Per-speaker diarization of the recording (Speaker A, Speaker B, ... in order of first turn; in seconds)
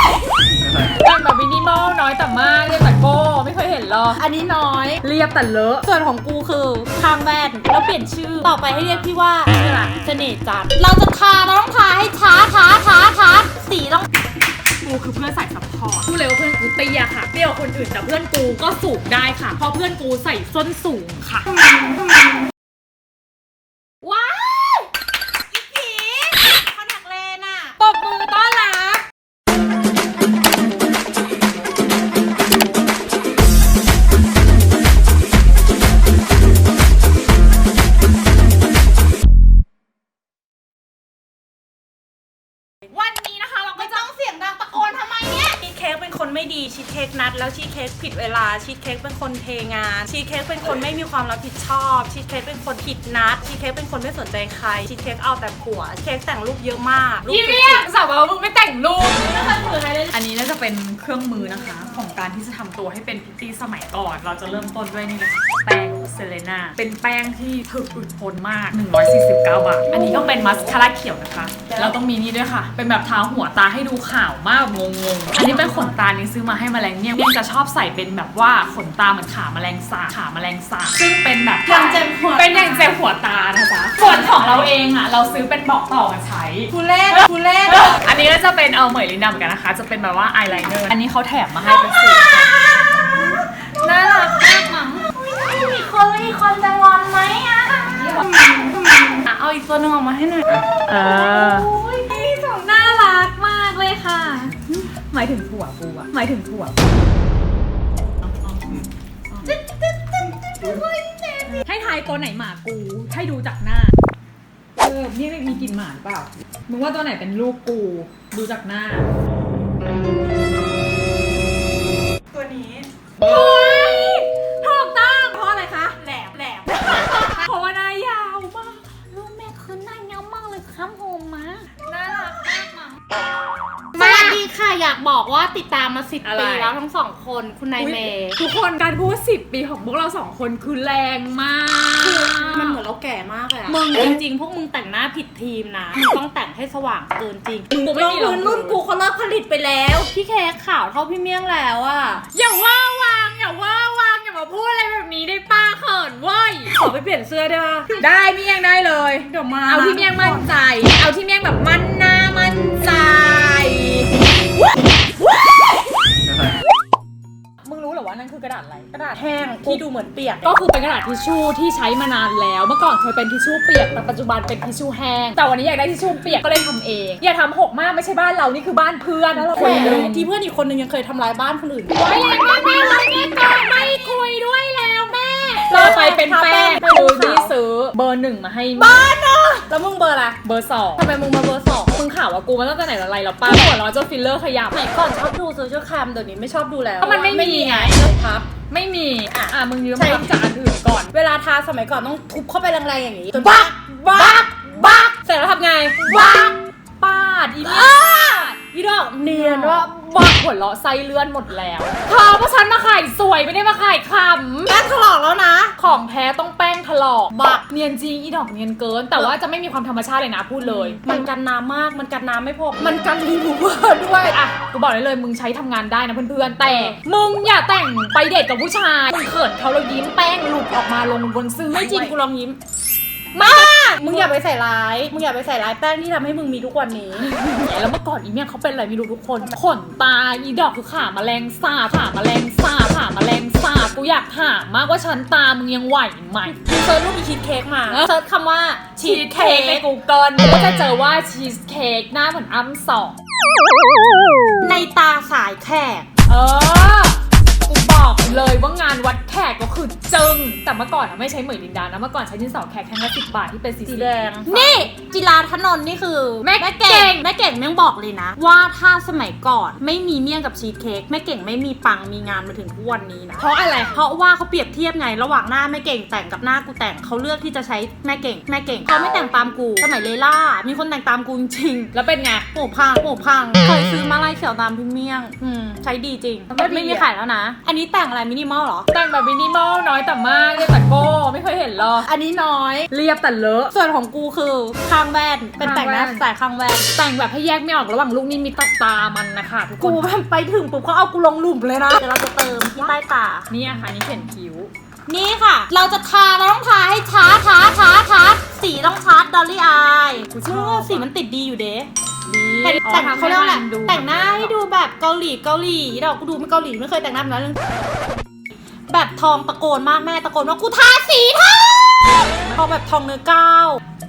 Speaker A: 0.9-4.2, 5.0-5.9, 8.3-9.1, 14.8-21.5, 27.8-29.0, 42.9-44.1, 57.3-92.5, 97.9-98.2, 100.9-106.9, 108.5-109.5, 111.5-114.0, 114.8-119.1, 123.2-126.0, 126.7-132.9, 133.9-134.4, 136.2-136.7, 137.8-142.8, 143.7-144.2, 147.7-148.8, 152.3-156.8, 157.9-164.1, 167.6-169.1, 170.4-180.3, 181.9-189.1, 190.4-191.1, 191.9-194.8, 197.0-198.1, 198.7-201.1, 203.3-205.1, 206.0-208.6, 209.3-214.8, 215.8-221.3, 222.8-232.2, 233.3-234.3, 237.2-246.6, 247.9-248.1, 248.9-253.2, 256.3-264.9, 266.4-267.2, 273.4-274.0, 281.9-282.5, 286.5-287.1, 288.9-292.1, 292.9-293.7, 295.6-296.2, 296.9-300.1, 302.6-302.9, 303.5-304.7, 310.3-311.1, 312.3-314.6, 322.2-322.6
Speaker B: 4.1-5.0, 5.8-14.1, 21.5-22.4, 24.0-24.8, 25.5-27.8, 43.8-57.9, 61.4-62.0, 69.9-70.8, 71.7-71.9, 75.3-76.0, 81.7-83.0, 84.0-84.4, 86.7-88.0, 92.5-100.6, 101.4-101.7, 109.4-109.8, 110.6-111.6, 122.3-122.9, 125.9-127.3, 134.0-138.4, 142.0-152.2, 156.7-158.0, 159.2-160.5, 169.1-170.6, 179.3-182.7, 185.7-187.5, 188.8-190.4, 190.9-192.0, 194.7-198.5, 199.3-200.3, 201.1-204.5, 205.1-206.5, 207.6-209.9, 214.7-215.8, 217.3-217.7, 220.6-223.2, 226.6-227.0, 231.7-232.6, 233.4-237.3, 246.4-249.8, 254.6-256.1, 263.9-281.9, 282.5-288.9, 292.0-292.9, 293.7-296.9, 299.8-303.5, 305.1-311.9, 312.6-317.6, 318.9-323.8